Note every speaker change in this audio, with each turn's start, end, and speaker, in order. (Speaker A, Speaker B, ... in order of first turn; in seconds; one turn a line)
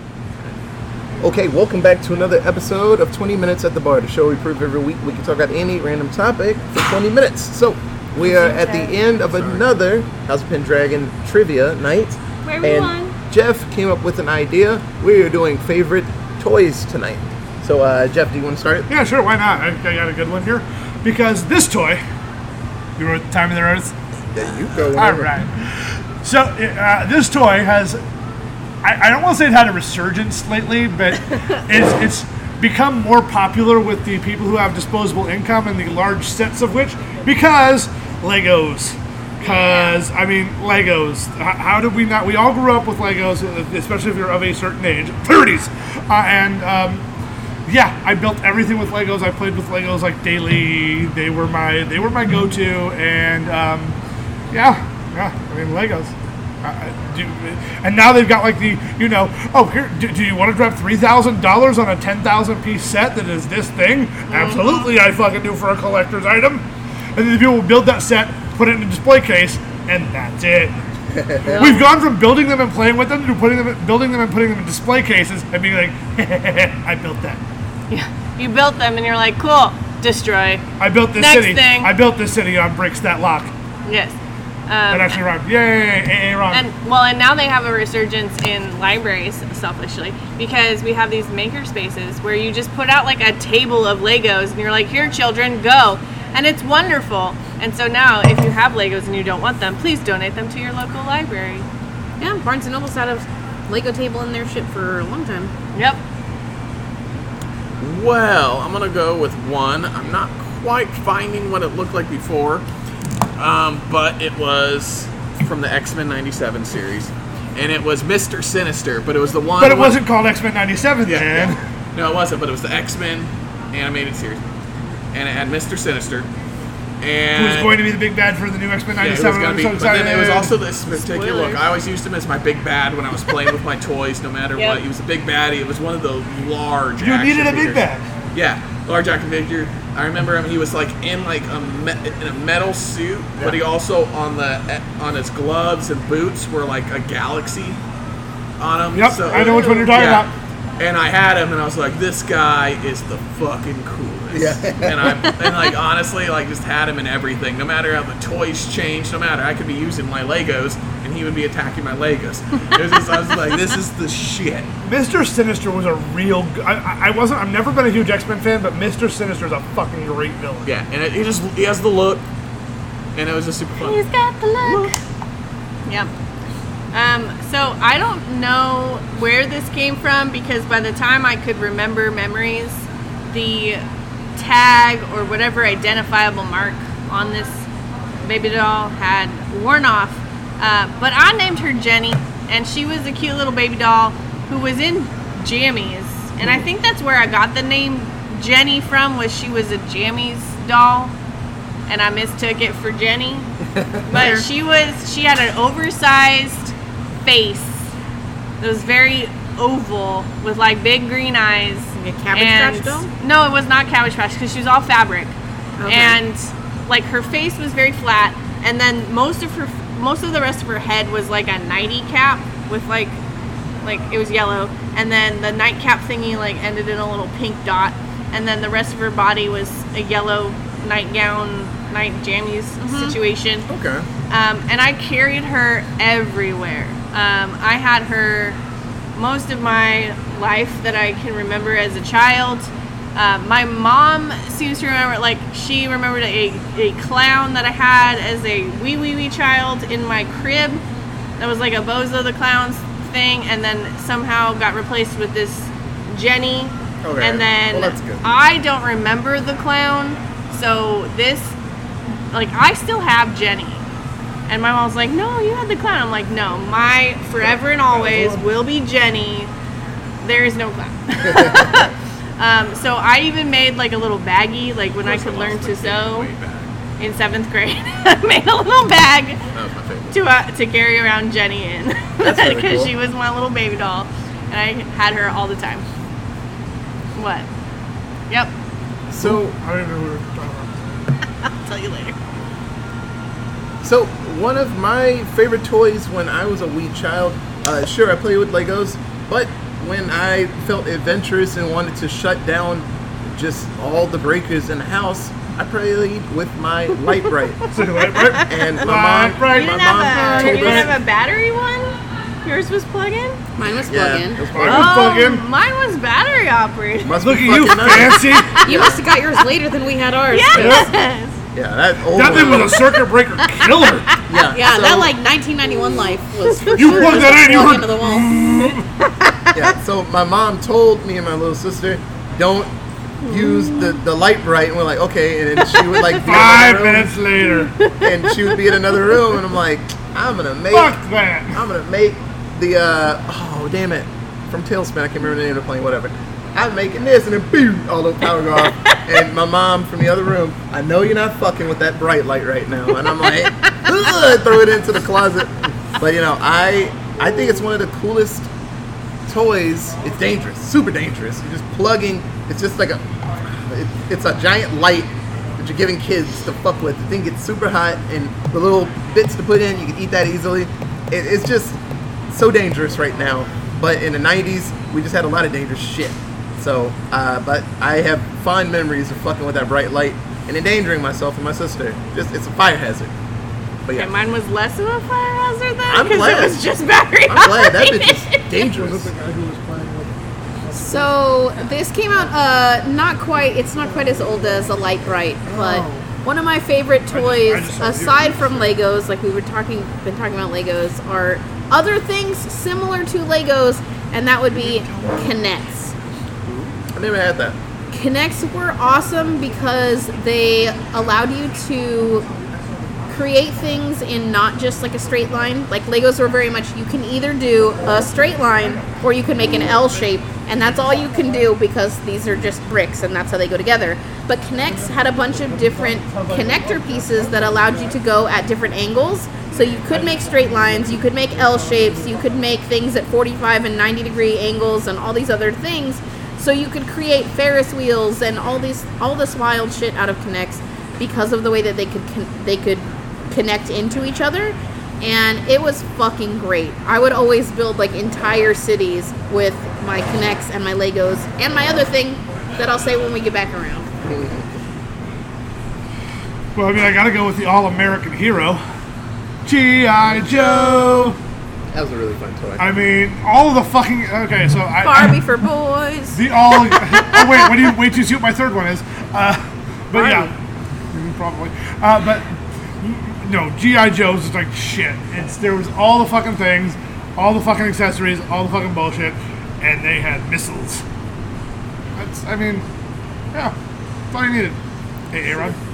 Speaker A: 1.2-18.9
Speaker B: 8.4-8.9
Speaker B: 12.4-13.2
Speaker C: 18.9-22.0
Speaker C: 23.0-23.9
Speaker A: 24.3-25.3
Speaker C: 24.9-28.0
Speaker C: 28.8-47.0
Speaker B: 39.4-39.9
Speaker C: 47.7-54.0
Speaker C: 54.5-70.8
Speaker D: 64.3-64.9
Speaker A: 71.1-71.7
Speaker D: 71.5-71.9
Speaker C: 71.6-77.4
Speaker B: 77.9-80.6
Speaker C: 80.8-83.5
Speaker B: 81.2-81.9
Speaker B: 83.9-84.2
Speaker B: 84.7-85.2
Speaker C: 84.9-86.7
Speaker B: 86.5-101.7
Speaker D: 102.2-105.5
Speaker B: 105.7-106.0
Speaker E: 107.8-112.6
Speaker E: 113.4-120.0
Speaker C: 119.6-121.6
Speaker E: 121.0-124.4
Speaker E: 125.1-126.3
Speaker E: 127.0-127.8
Speaker C: 127.3-130.5
Speaker E: 129.0-147.8
Speaker B: 131.0-131.6
Speaker B: 134.6-134.8
Speaker C: 137.0-138.1
Speaker E: 148.6-164.7
Speaker C: 148.9-150.3
Speaker B: 149.4-149.9
Speaker A: 154.3-155.1
Speaker C: 164.8-170.7
Speaker E: 170.7-172.2
Speaker E: 173.2-174.0
Speaker B: 173.8-174.9
Speaker E: 174.6-174.9
Speaker B: 176.9-183.8
Speaker B: 184.4-187.7
Speaker B: 188.2-201.1
Speaker B: 201.9-203.5
Speaker A: 203.8-204.5
Speaker B: 204.1-207.9
Speaker B: 208.6-215.3
Speaker D: 211.9-213.1
Speaker D: 215.8-216.2
Speaker B: 215.9-223.2
Speaker B: 223.8-233.7
Speaker D: 232.8-233.2
Speaker A: 233.7-234.1
Speaker B: 234.3-238.6
Speaker B: 239.2-250.8
Speaker B: 251.4-261.6
Speaker A: 257.0-258.3
Speaker B: 262.3-263.8
Speaker B: 264.5-269.5
Speaker A: 268.0-268.4
Speaker B: 270.2-276.3
Speaker A: 271.3-271.6
Speaker E: 275.0-276.7
Speaker B: 277.0-279.4
Speaker E: 279.5-280.2
Speaker B: 280.1-285.9
Speaker A: 282.2-282.9
Speaker B: 287.2-287.5
Speaker A: 289.1-289.6
Speaker C: 289.2-290.8
Speaker B: 291.4-292.2
Speaker A: 293.8-307.6
Speaker C: 307.7-311.0
Speaker B: 307.9-308.7
Speaker A: 308.5-310.9
Speaker B: 309.5-313.4
Speaker D: 310.4-310.8
Speaker D: 313.6-314.5
Speaker A: 313.9-315.0
Speaker C: 314.5-315.4
Speaker B: 314.6-317.1
Speaker A: 317.0-319.1
Speaker C: 317.2-318.6
Speaker B: 317.8-318.8
Speaker D: 318.6-320.9
Speaker B: 320.3-321.4
Speaker C: 320.5-320.9
Speaker A: 321.5-322.8
Speaker C: 322.1-324.2
Speaker A: 324.3-325.1
Speaker D: 324.5-328.4
Speaker C: 326.7-328.9
Speaker D: 329.0-329.7
Speaker A: 329.6-332.7
Speaker A: 333.2-337.1
Speaker B: 333.2-333.9
Speaker C: 336.2-337.8
Speaker B: 337.5-339.2
Speaker A: 338.0-341.0
Speaker C: 340.7-341.6
Speaker A: 341.5-358.5
Speaker B: 348.7-349.1
Speaker A: 359.3-363.0
Speaker A: 363.7-383.1
Speaker A: 383.9-384.1
Speaker B: 383.9-388.4
Speaker A: 385.9-386.6
Speaker A: 387.3-389.1
Speaker C: 388.6-390.2
Speaker C: 390.7-391.1
Speaker D: 390.7-405.9
Speaker C: 395.5-396.1
Speaker C: 397.1-398.8
Speaker C: 404.6-405.1
Speaker A: 406.5-407.6
Speaker D: 407.9-412.3
Speaker D: 413.1-453.9
Speaker C: 426.1-426.3
Speaker A: 454.1-454.5
Speaker C: 456.6-458.6
Speaker C: 459.4-461.2
Speaker A: 460.1-461.1
Speaker A: 461.7-462.7
Speaker C: 462.6-465.2
Speaker D: 464.8-467.6
Speaker C: 466.1-470.3
Speaker D: 470.0-470.3
Speaker C: 470.9-480.8
Speaker C: 482.0-482.7
Speaker C: 484.1-484.6
Speaker C: 485.1-485.6